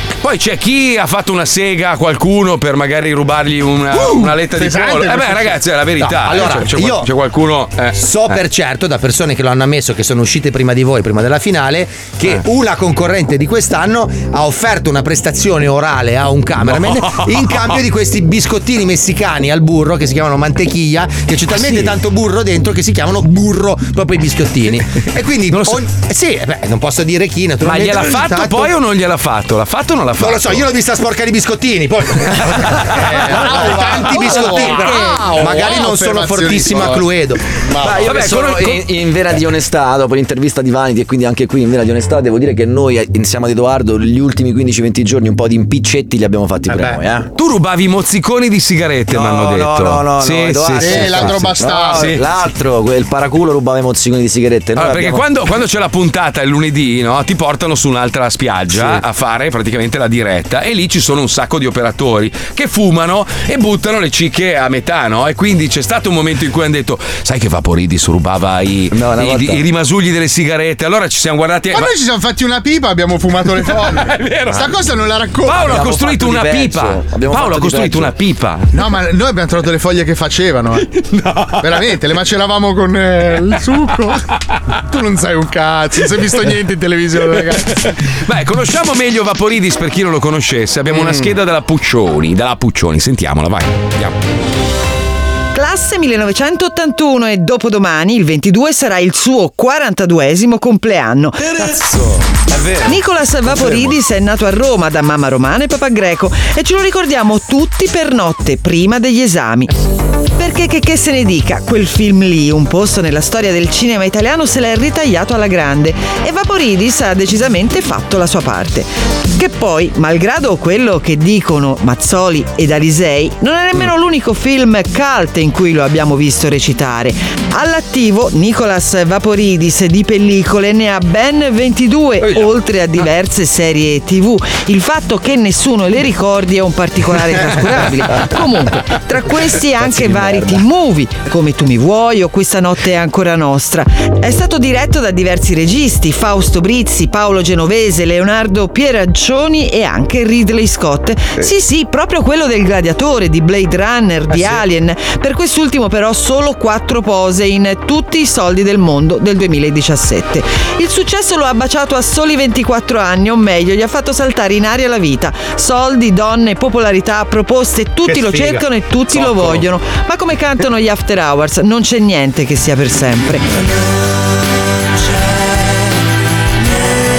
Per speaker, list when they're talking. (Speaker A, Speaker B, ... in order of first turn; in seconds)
Speaker A: 0.2-8.4, 16.6-17.8, 25.5-25.8, 27.6-30.7, 38.0-38.9, 47.4-52.2, 54.8-71.9, 73.6-74.8, 75.4-78.7, 80.9-81.9, 87.4-94.2
Speaker B: 3.9-5.6, 33.1-38.1, 50.8-52.2, 71.7-75.9, 78.7-80.9, 81.6-84.3, 84.9-87.9
Speaker C: 6.0-7.1, 7.9-28.7, 30.2-37.4
Speaker D: 37.8-47.3, 49.1-55.2, 58.7-59.0, 68.9-69.6, 75.6-78.1, 101.4-104.0, 139.8-140.6
Speaker E: 95.5-101.8, 102.8-109.7, 110.4-173.5